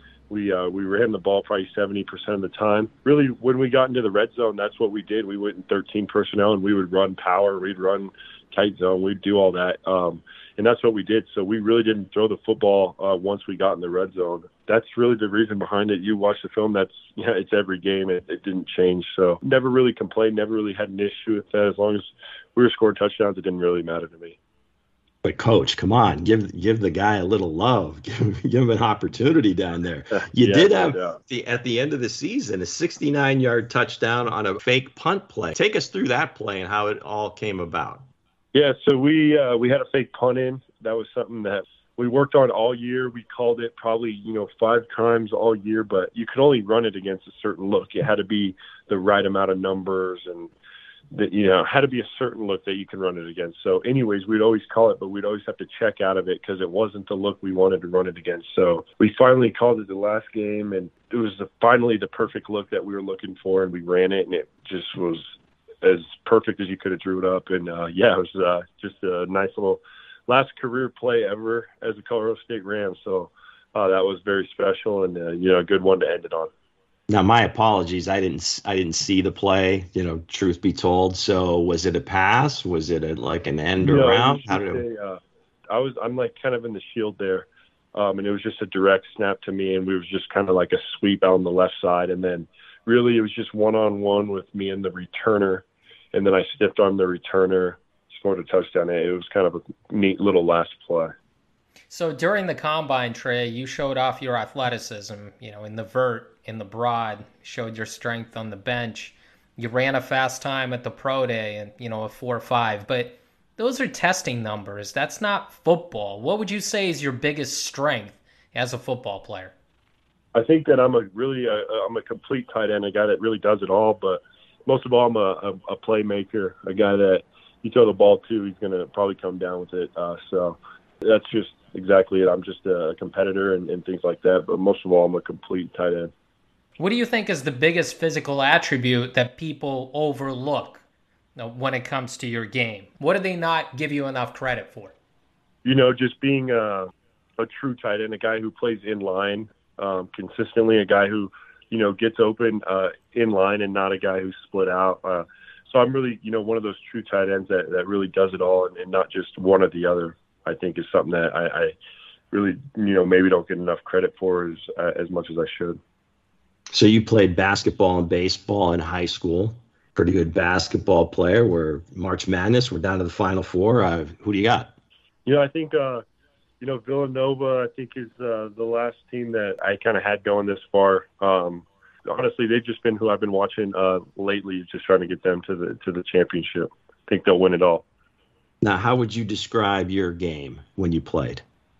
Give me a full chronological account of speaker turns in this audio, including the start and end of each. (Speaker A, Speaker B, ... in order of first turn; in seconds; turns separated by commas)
Speaker A: 0.3-24.4, Speaker B: 25.2-38.0, Speaker A: 30.3-31.2, Speaker A: 38.5-50.5, Speaker A: 51.1-65.2, Speaker A: 65.8-76.5, Speaker B: 77.1-84.8, Speaker A: 83.8-85.2, Speaker A: 85.7-101.1, Speaker C: 101.9-119.5, Speaker A: 120.3-136.1, Speaker C: 136.8-140.8, Speaker C: 141.3-144.9, Speaker A: 145.6-161.7, Speaker A: 162.3-165.8, Speaker B: 166.7-174.7, Speaker A: 175.2-176.0, Speaker A: 176.6-187.8, Speaker B: 188.6-191.4